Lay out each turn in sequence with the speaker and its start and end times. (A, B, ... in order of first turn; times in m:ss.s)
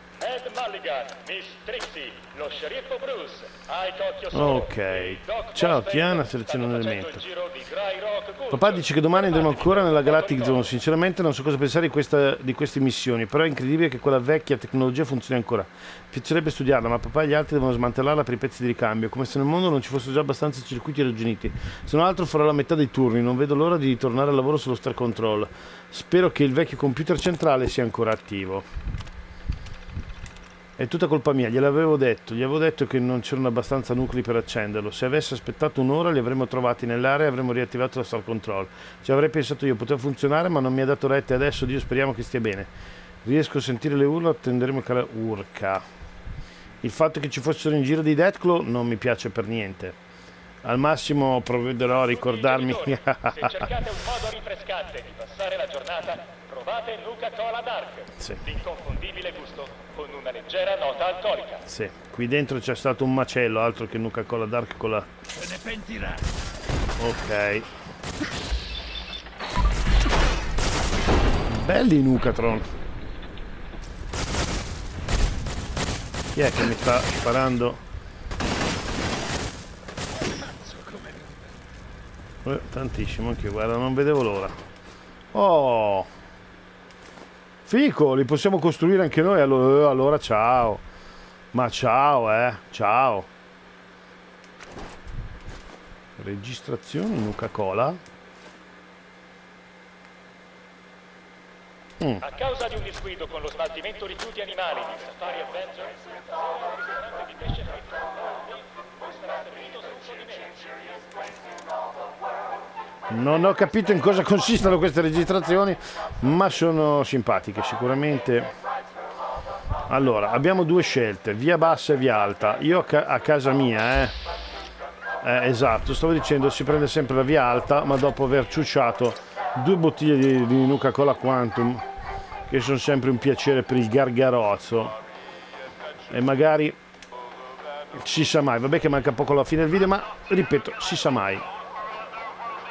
0:00.2-0:10.7 A
0:04.3-0:07.2 B
0:08.5-0:28.7 B
0:30.8-0:42.7 B
0:43.2-0:45.8 B
0:46.8-0:50.0 B
0:50.6-0:53.7 B
0:52.0-1:01.6 A
1:01.7-1:05.1 B
1:05.4-1:06.3 C
1:07.0-1:07.7 B
1:11.5-1:12.7 B
1:16.4-1:17.8 B
1:20.1-1:21.5 C
1:22.4-1:24.6 B
1:25.3-1:26.1 B
1:27.7-1:30.8 B
1:31.5-1:33.3 B
1:36.2-1:38.0 B
1:42.2-1:50.8 A
1:53.1-1:58.5 B
1:59.9-2:04.2 B
2:05.2-2:11.8 B
2:12.5-2:15.0 B
2:16.1-2:16.8 B
2:17.9-2:21.4 B